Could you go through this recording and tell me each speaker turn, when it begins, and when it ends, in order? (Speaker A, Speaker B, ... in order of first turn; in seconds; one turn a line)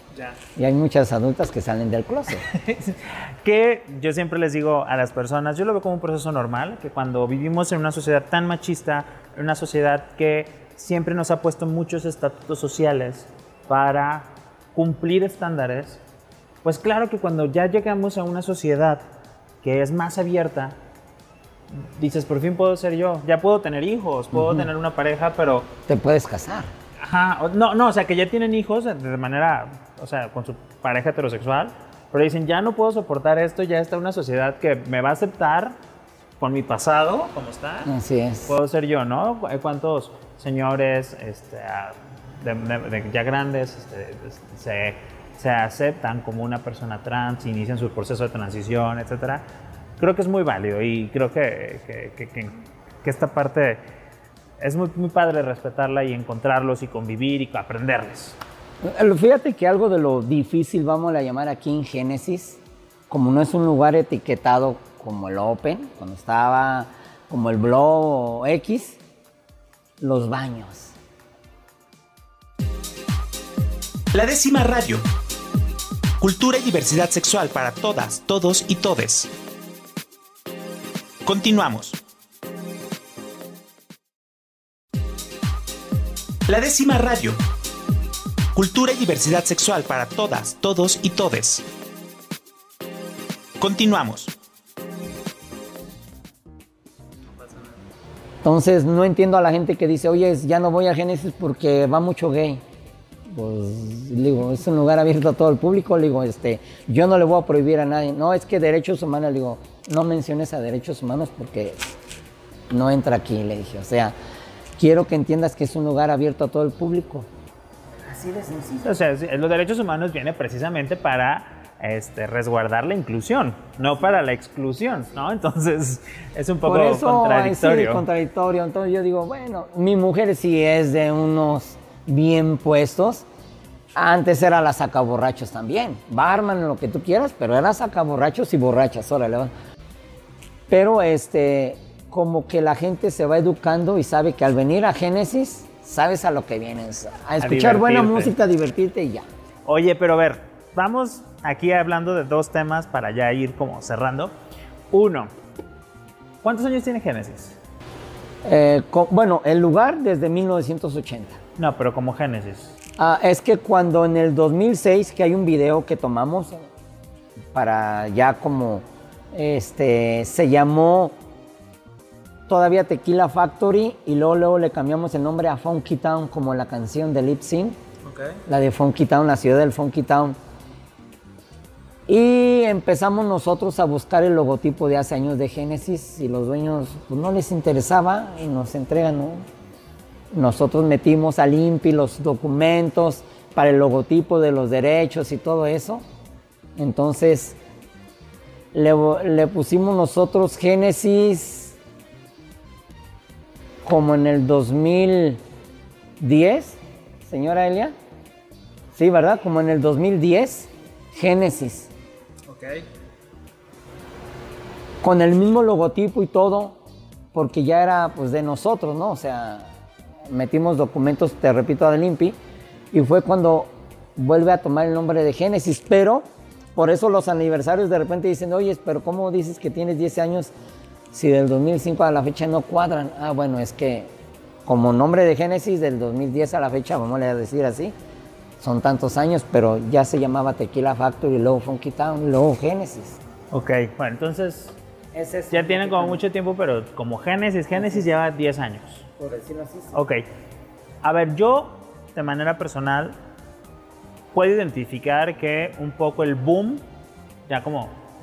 Speaker A: 0.6-2.4
Speaker B: 2.5-16.0
Speaker B: 16.6-19.0
Speaker B: 19.6-20.8
Speaker B: 21.7-25.7
Speaker A: 24.3-24.7
Speaker A: 25.9-26.7
Speaker B: 27.0-35.8
Speaker B: 36.4-37.9
Speaker A: 37.8-38.5
Speaker B: 38.5-49.4
Speaker B: 50.0-53.8
Speaker B: 54.6-58.4
Speaker A: 58.8-62.6
Speaker A: 63.1-69.0
Speaker A: 70.0-70.9
Speaker C: 74.1-75.0
Speaker C: 76.2-79.3
Speaker C: 81.2-82.0
Speaker C: 86.5-87.4
Speaker C: 88.5-91.7
Speaker C: 93.6-94.3
Speaker A: 98.4-102.6
Speaker A: 103.3-111.8
Speaker A: 112.7-114.1
Speaker A: 114.8-117.3
Speaker A: 118.1-118.8
Speaker B: 118.8-128.1
Speaker A: 126.6-133.2
Speaker A: 133.9-139.5
Speaker A: 140.7-149.2
Speaker B: 147.4-148.3
Speaker B: 149.7-154.3
Speaker B: 154.9-155.3
Speaker B: 156.4-157.6
Speaker A: 158.4-161.4
Speaker B: 161.6-162.7
Speaker A: 163.0-166.6
Speaker A: 167.5-171.1
Speaker A: 172.5-177.8
Speaker B: 178.0-178.4
Speaker A: 178.4-180.3
Speaker A: 182.1-189.4
Speaker A: 190.3-196.0
Speaker A: 196.8-197.6
Speaker A: 198.7-201.7
Speaker A: 203.8-205.4
Speaker A: 206.2-207.9
Speaker A: 208.9-211.9
Speaker B: 212.5-212.8
Speaker A: 215.0-216.8
Speaker A: 217.3-219.7
Speaker A: 220.2-222.3
Speaker A: 222.9-230.5
Speaker A: 231.1-234.1
Speaker A: 234.7-237.9
Speaker A: 238.6-243.2
Speaker B: 243.5-244.8
Speaker A: 245.1-246.2
Speaker B: 245.5-249.1
Speaker A: 249.2-250.0
Speaker B: 249.9-250.2
Speaker B: 251.0-253.2
Speaker B: 254.3-256.8
Speaker B: 257.5-257.9